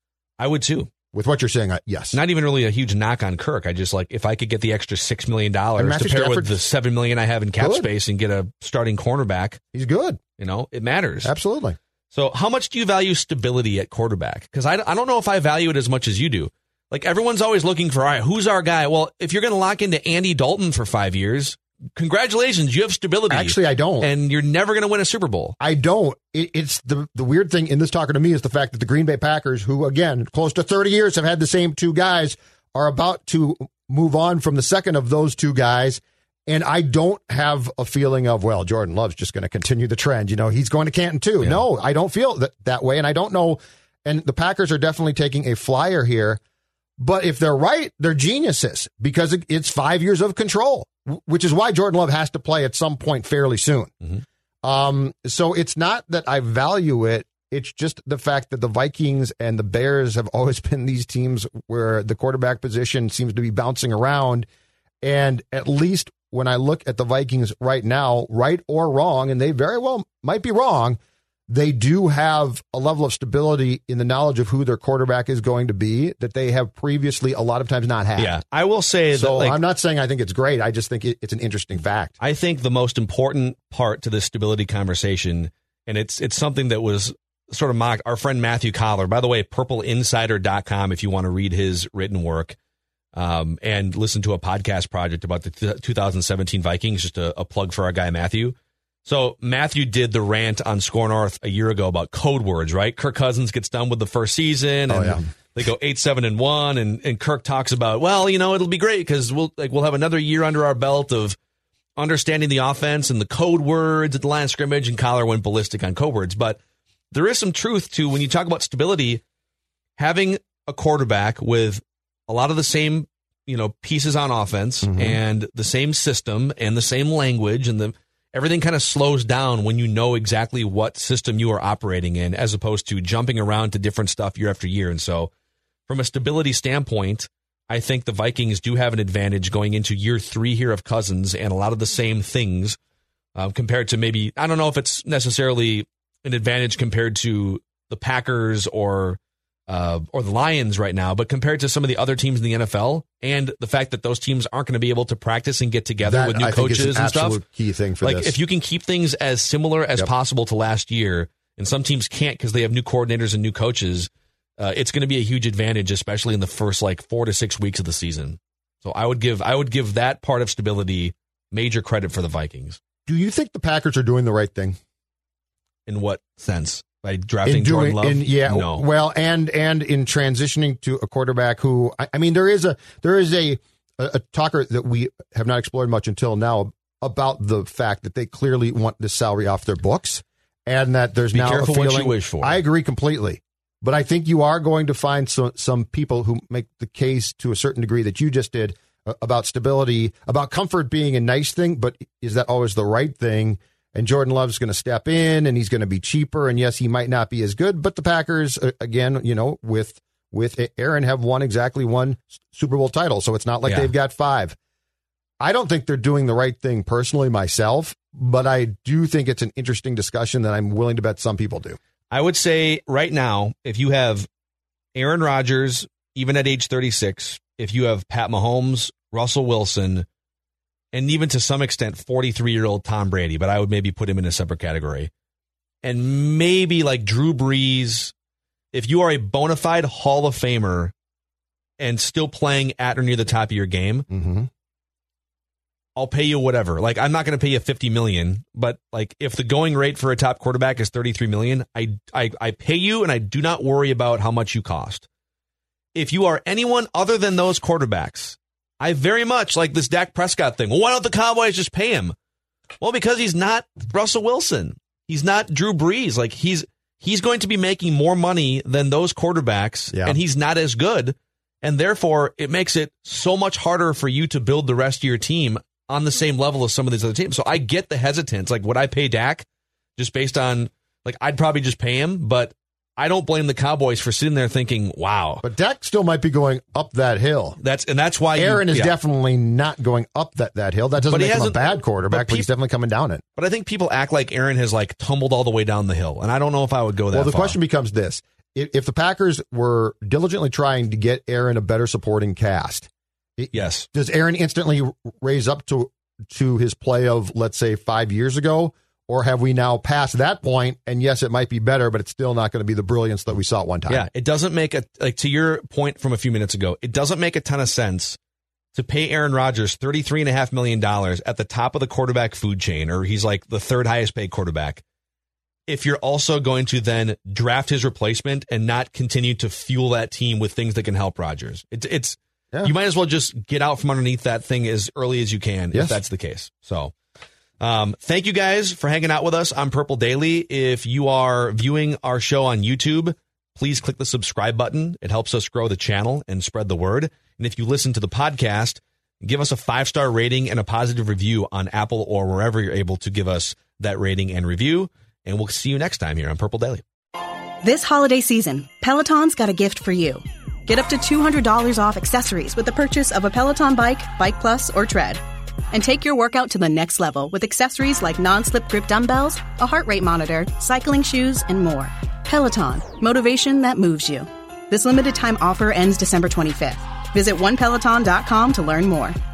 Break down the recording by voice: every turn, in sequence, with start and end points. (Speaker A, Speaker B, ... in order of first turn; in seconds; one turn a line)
Speaker A: 0.4-0.9
Speaker B: 1.1-2.2
Speaker A: 2.1-9.6
Speaker B: 5.8-6.6
Speaker B: 7.6-7.9
Speaker B: 9.7-10.2
Speaker A: 10.4-11.3
Speaker B: 11.2-11.8
Speaker A: 12.1-25.6
Speaker B: 23.3-24.1
Speaker B: 25.6-46.4
Speaker B: 47.0-64.5
Speaker B: 65.0-71.0
Speaker B: 71.5-78.3
Speaker A: 78.2-79.6
Speaker B: 79.1-82.1
Speaker A: 82.2-92.6
Speaker A: 93.1-111.4
Speaker B: 104.9-105.3
Speaker A: 112.0-116.6
Speaker A: 117.1-119.2
Speaker A: 120.0-135.3
Speaker B: 124.9-125.2
Speaker A: 135.9-142.8
Speaker A: 143.3-157.4
Speaker B: 156.0-158.3
Speaker A: 158.0-172.8
Speaker B: 173.1-174.8
Speaker A: 175.8-178.8
Speaker B: 177.4-214.6
Speaker A: 191.3-192.6
Speaker B: 215.4-221.8
Speaker A: 222.1-224.3
Speaker A: 224.9-230.1
Speaker A: 230.9-235.1
Speaker A: 235.8-238.1
Speaker A: 238.7-240.9
Speaker A: 241.8-244.1
Speaker B: 244.1-244.5
Speaker A: 245.9-255.1
Speaker A: 255.9-262.1
Speaker A: 262.8-285.4
Speaker B: 269.9-270.2
Speaker B: 285.4-287.6
Speaker A: 287.6-288.9
Speaker B: 288.4-293.2
Speaker A: 291.0-292.5
Speaker A: 293.4-297.6
Speaker B: 297.1-314.1
Speaker A: 303.5-303.9
Speaker A: 313.9-318.2
Speaker A: 318.7-324.8
Speaker A: 325.7-336.9
Speaker B: 335.7-336.0
Speaker A: 337.6-356.8
Speaker C: 357.6-379.2